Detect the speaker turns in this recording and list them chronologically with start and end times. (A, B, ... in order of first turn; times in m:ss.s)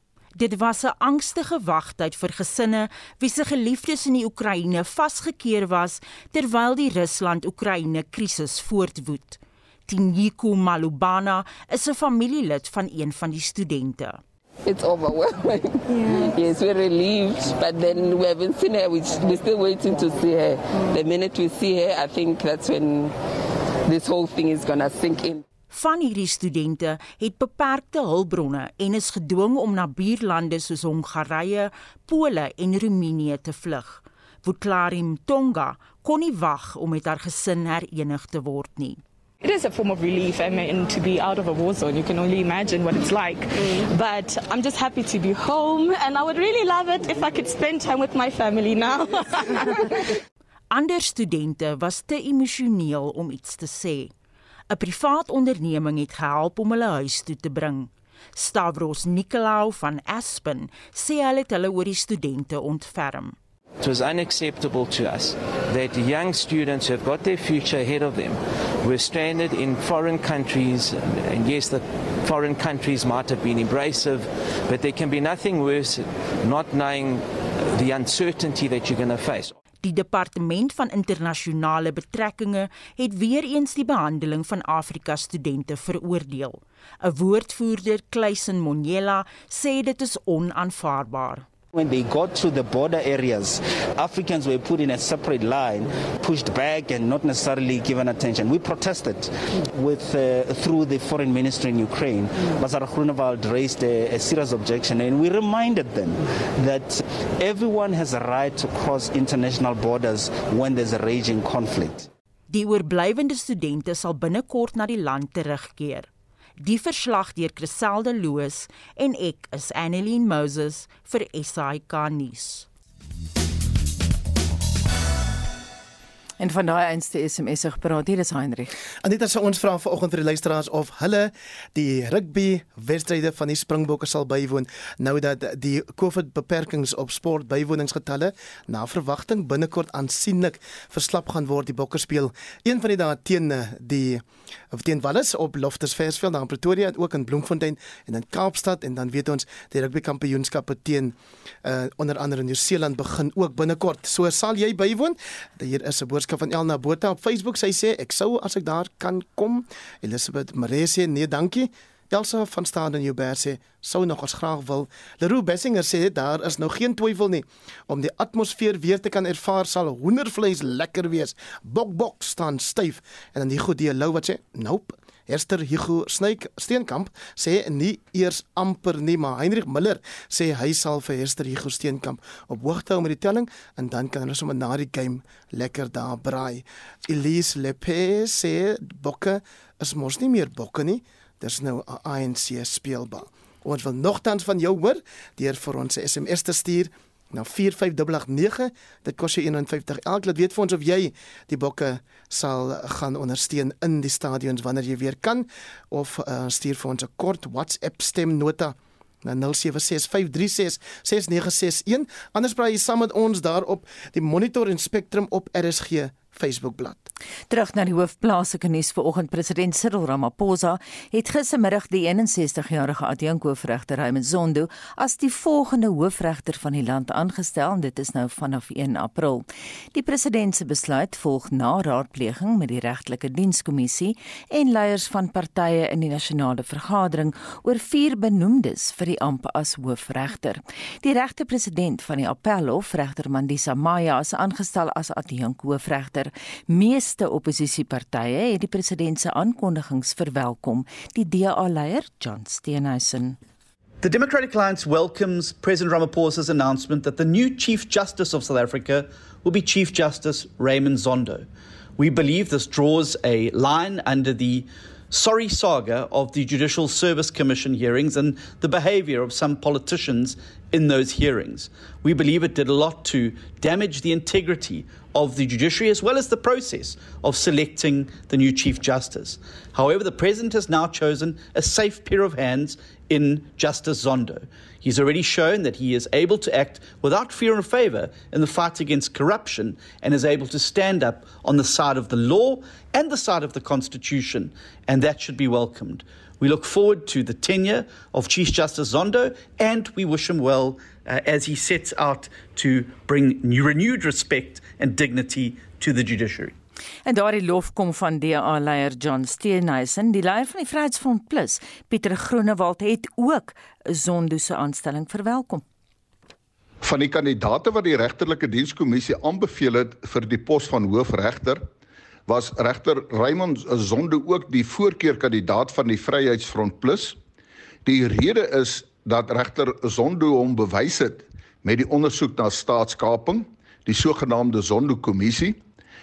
0:00.4-0:14.2 A
0:14.6-0:23.1 B
0:23.8-0:25.4 B
0:25.7-0:39.0 A
0:39.4-0:50.1 C
0:50.7-0:54.1 A
0:54.7-1:03.4 A
1:03.8-1:19.6 D
1:19.8-1:31.5 A
1:31.7-1:52.1 E
1:52.5-2:02.7 A
2:06.4-2:08.7 F
2:09.0-3:37.1 G
3:37.5-4:13.4 F
4:14.0-4:21.5 H
4:22.0-5:06.6 H
5:07.0-5:15.6 F
5:16.8-5:21.7 I
5:22.3-5:27.2 I
5:27.8-5:35.6 I